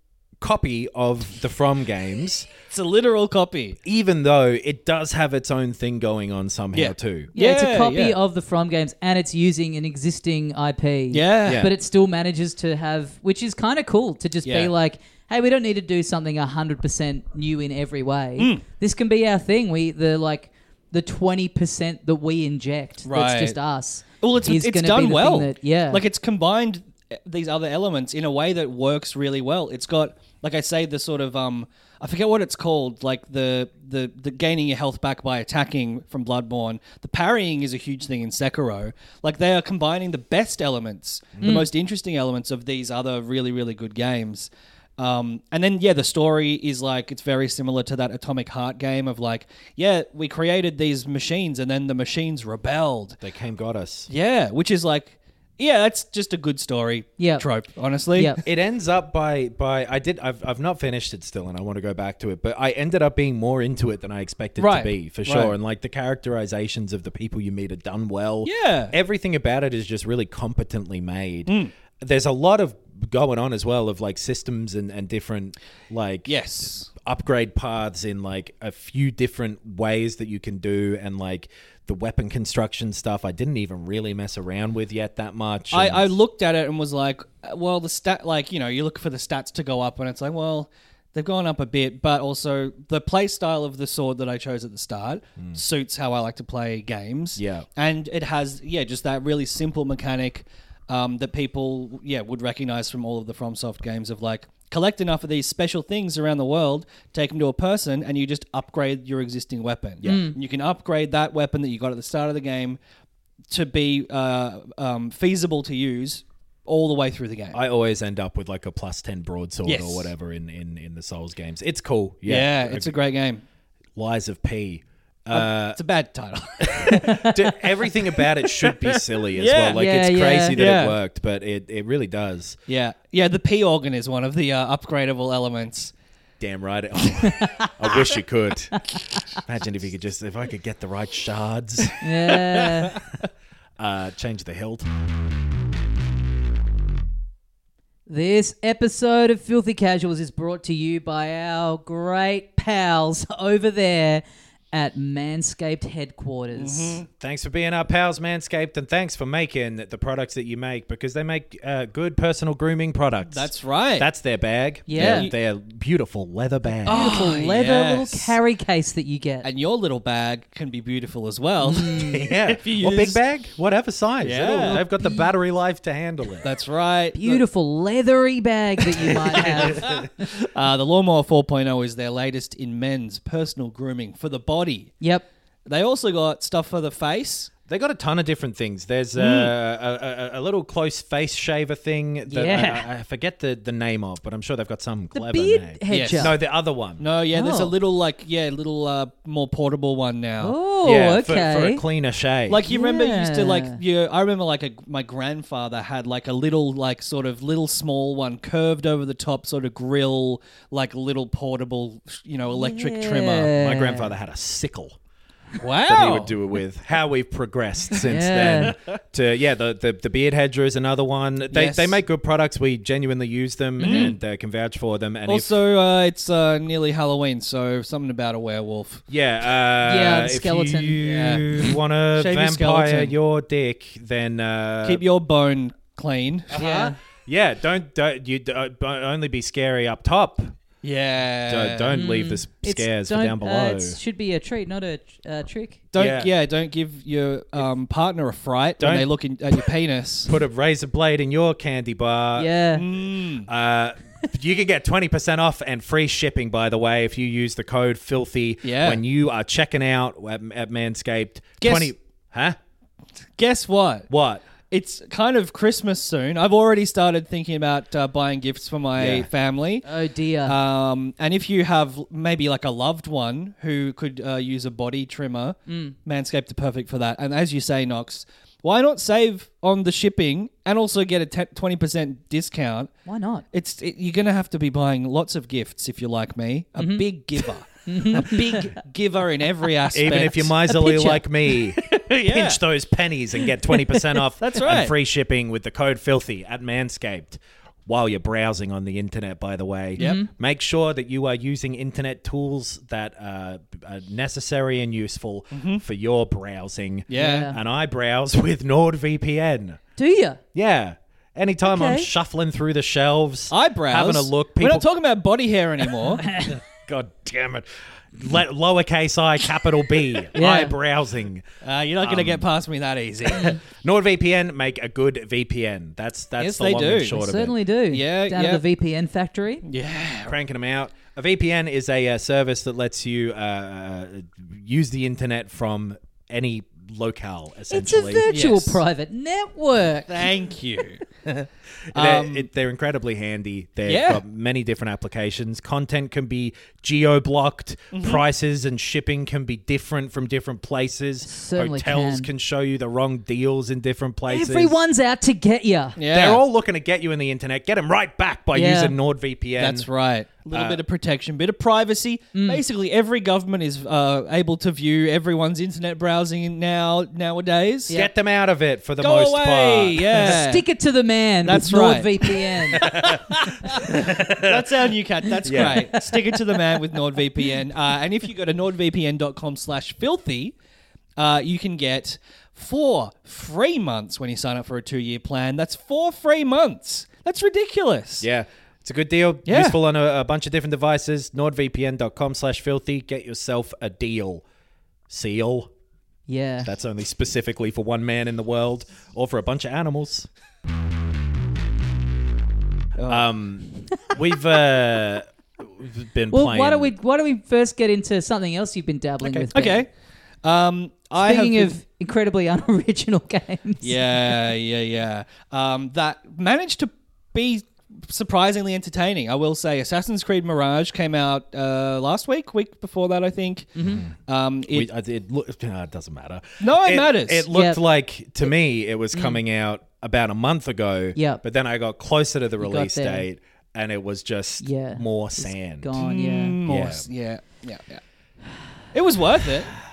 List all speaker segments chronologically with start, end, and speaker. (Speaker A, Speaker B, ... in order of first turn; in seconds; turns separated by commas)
Speaker A: 0.4-2.5, Speaker B: 2.7-3.8, Speaker A: 3.8-7.3, Speaker B: 6.7-8.2, Speaker C: 7.3-26.0, Speaker B: 11.1-11.7, Speaker A: 11.4-11.7, Speaker B: 14.4-14.7, Speaker B: 18.4-18.6, Speaker B: 23.0-23.6, Speaker B: 24.2-53.2, Speaker A: 41.4-41.6, Speaker A: 53.2-54.1, Speaker B: 54.1-58.4, Speaker C: 57.2-57.4, Speaker A: 58.4-76.3, Speaker B: 64.6-65.5, Speaker B: 68.4-68.9, Speaker B: 71.5-71.7, Speaker B: 76.2-76.9, Speaker A: 76.9-86.1, Speaker B: 85.7-112.8, Speaker A: 97.3-97.7, Speaker C: 110.0-110.3, Speaker B: 113.5-117.6, Speaker A: 117.5-122.9, Speaker B: 119.6-120.1, Speaker B: 122.2-123.4, Speaker A: 124.0-125.8, Speaker B: 125.3-129.8, Speaker A: 126.6-132.6, Speaker C: 129.7-130.6, Speaker B: 130.5-131.0, Speaker B: 132.7-135.9, Speaker A: 136.4-143.0, Speaker C: 137.2-137.7, Speaker C: 142.0-142.9, Speaker A: 143.8-144.9, Speaker C: 148.1-157.0, Speaker B: 156.5-157.1, Speaker A: 157.2-167.2, Speaker B: 163.3-164.1, Speaker C: 164.9-165.3, Speaker B: 164.9-165.3, Speaker B: 166.8-168.3, Speaker C: 166.9-169.5, Speaker B: 169.4-173.2, Speaker C: 171.6-172.2, Speaker A: 171.9-176.5, Speaker B: 174.2-174.8, Speaker C: 175.0-175.2, Speaker B: 176.4-177.4, Speaker C: 177.1-180.0, Speaker B: 179.0-184.9, Speaker A: 179.4-180.0, Speaker C: 185.0-185.2, Speaker B: 185.7-187.5, Speaker A: 187.7-197.1, Speaker B: 189.2-189.5, Speaker C: 192.3-192.8, Speaker C: 195.1-196.3, Speaker B: 195.9-196.4, Speaker B: 197.0-200.6, Speaker C: 197.3-197.7, Speaker C: 200.4-201.8, Speaker A: 200.8-202.6, Speaker B: 202.5-213.6, Speaker C: 202.7-203.8, Speaker C: 212.5-214.1, Speaker A: 213.4-215.0, Speaker B: 215.6-216.4, Speaker A: 215.9-225.5, Speaker C: 218.0-218.7, Speaker B: 218.4-218.7, Speaker B: 221.5-222.0, Speaker B: 223.8-224.2, Speaker C: 223.8-224.1, Speaker B: 225.2-229.0, Speaker A: 229.1-235.0, Speaker C: 229.8-231.0, Speaker B: 231.0-231.5, Speaker B: 232.1-233.1, Speaker B: 234.8-236.6, Speaker A: 236.5-240.5, Speaker C: 236.5-236.9, Speaker B: 240.8-242.0, Speaker A: 241.5-244.0, Speaker C: 241.9-245.8, Speaker B: 245.9-250.3, Speaker A: 245.9-246.3, Speaker A: 248.8-249.7, Speaker A: 250.2-252.5, Speaker C: 252.3-252.8, Speaker B: 252.7-253.5, Speaker A: 253.4-262.6, Speaker B: 258.6-259.0, Speaker B: 261.6-261.9, Speaker B: 263.4-264.1, Speaker A: 264.1-264.4, Speaker B: 264.7-269.9, Speaker A: 268.9-269.3, Speaker C: 269.8-270.6, Speaker B: 270.4-282.9, Speaker C: 275.7-275.9, Speaker C: 283.1-283.4, Speaker B: 283.5-290.6, Speaker C: 286.8-287.0, Speaker C: 287.8-288.7, Speaker A: 289.9-309.8, Speaker C: 290.6-291.2, Speaker B: 291.8-292.6, Speaker B: 293.7-294.9, Speaker C: 300.0-300.3, Speaker B: 300.0-300.2, Speaker B: 305.5-305.8, Speaker B: 307.1-307.5, Speaker C: 307.1-307.6, Speaker C: 310.0-310.4, Speaker A: 310.5-314.9, Speaker C: 311.6-312.1, Speaker B: 313.5-316.2, Speaker C: 316.2-316.6, Speaker A: 316.2-321.4, Speaker C: 320.3-320.7, Speaker B: 321.6-323.6, Speaker A: 322.0-322.4, Speaker A: 323.4-327.6, Speaker B: 326.4-327.2, Speaker C: 327.1-329.6, Speaker B: 327.9-328.6, Speaker B: 329.6-330.3, Speaker A: 330.2-338.2, Speaker C: 337.7-340.3, Speaker B: 338.3-338.8, Speaker B: 340.1-341.0, Speaker A: 341.3-354.8, Speaker B: 341.9-342.5, Speaker B: 343.9-344.2, Speaker B: 347.9-348.2, Speaker C: 351.2-352.3, Speaker C: 354.3-356.0, Speaker B: 356.0-356.4, Speaker A: 356.1-359.9, Speaker C: 358.5-358.9, Speaker B: 359.6-368.0, Speaker A: 360.5-360.8, Speaker C: 362.3-362.6, Speaker A: 367.9-370.4, Speaker B: 369.0-370.6, Speaker C: 370.2-372.8, Speaker B: 371.4-380.5, Speaker A: 372.7-374.9, Speaker A: 375.4-376.2, Speaker B: 381.2-388.3, Speaker A: 388.2-394.4, Speaker B: 389.4-389.8, Speaker A: 395.1-395.7, Speaker C: 396.3-396.7, Speaker A: 396.6-400.3, Speaker B: 403.0-403.2, Speaker A: 403.1-406.9, Speaker C: 406.3-409.8, Speaker B: 409.5-409.9, Speaker B: 410.4-411.8, Speaker C: 411.2-414.3, Speaker B: 413.8-423.7, Speaker C: 423.8-424.0, Speaker A: 423.8-424.1, Speaker B: 424.2-424.9, Speaker A: 424.7-436.0, Speaker B: 426.6-427.5, Speaker C: 427.5-427.8, Speaker C: 429.1-429.4, Speaker C: 431.1-431.4, Speaker C: 432.6-433.3, Speaker C: 434.6-436.6, Speaker B: 436.0-438.0, Speaker A: 436.6-437.1, Speaker B: 438.9-439.7